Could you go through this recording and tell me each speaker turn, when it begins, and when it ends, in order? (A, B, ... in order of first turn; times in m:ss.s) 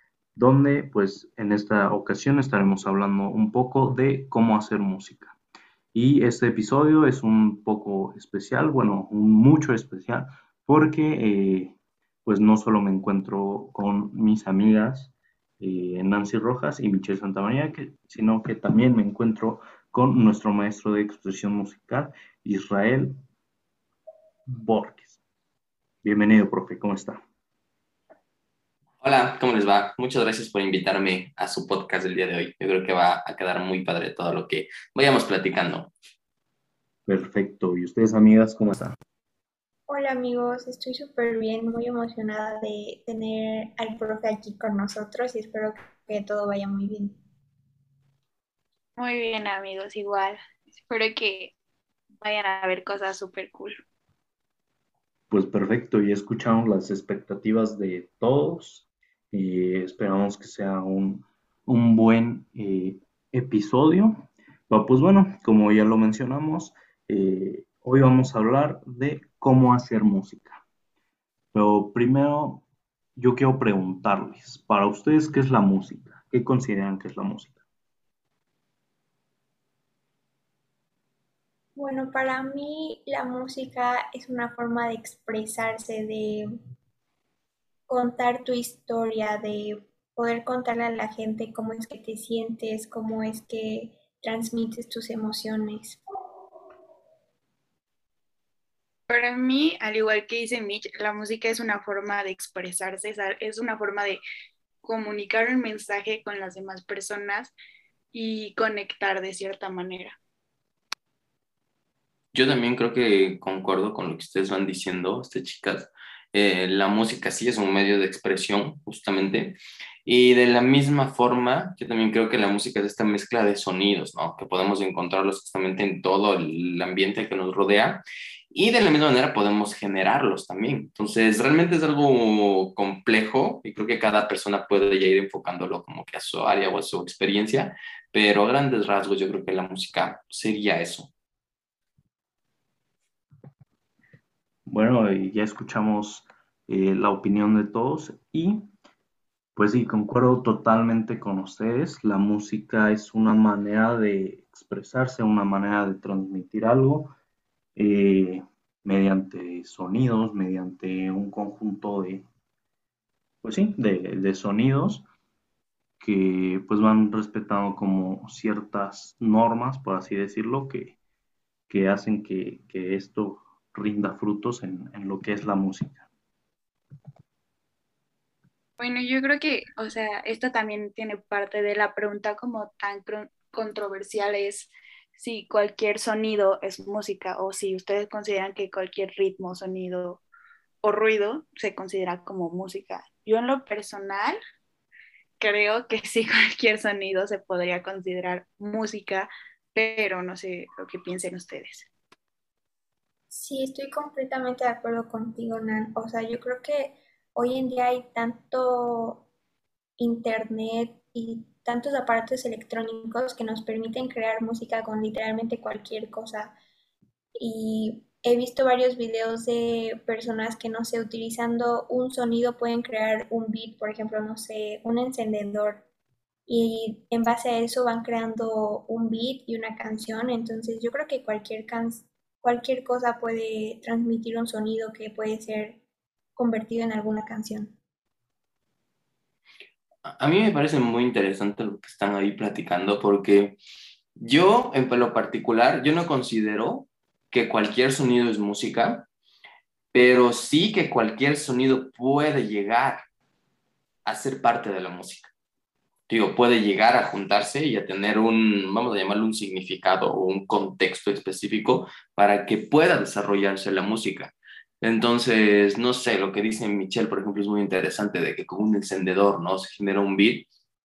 0:00.4-0:05.4 A
0:05.9-0:23.2 A
0:24.5-0:25.2 A
0:26.0-0:27.2 A
0:29.0-0:35.9 B
0:37.1-0:39.0 A
0:39.9-0:47.2 C
0:49.0-0:51.5 D
0:52.2-0:53.8 D
0:55.3-1:10.6 A
1:11.5-1:12.6 A
1:13.2-1:17.6 A
1:21.8-1:26.5 C
1:27.9-1:36.0 C
1:39.1-1:44.2 D
1:44.8-1:47.5 D
1:48.1-1:50.2 D
1:52.3-2:21.1 B
2:24.7-2:28.7 A
2:29.5-2:37.1 A
2:37.8-2:42.2 A
2:43.4-2:45.0 A
2:46.0-2:51.0 A
2:51.7-2:56.0 A
2:58.8-3:10.2 D
3:10.8-3:14.4 D
3:15.4-3:21.9 D
3:23.3-3:29.3 C
3:30.0-3:36.6 C
3:37.3-3:45.8 C
3:46.5-3:55.8 C
3:56.4-3:57.8 C
4:00.0-4:03.6 B
4:04.2-4:09.1 B
4:09.9-4:13.0 B
4:14.0-4:15.3 B
4:16.1-4:30.5 B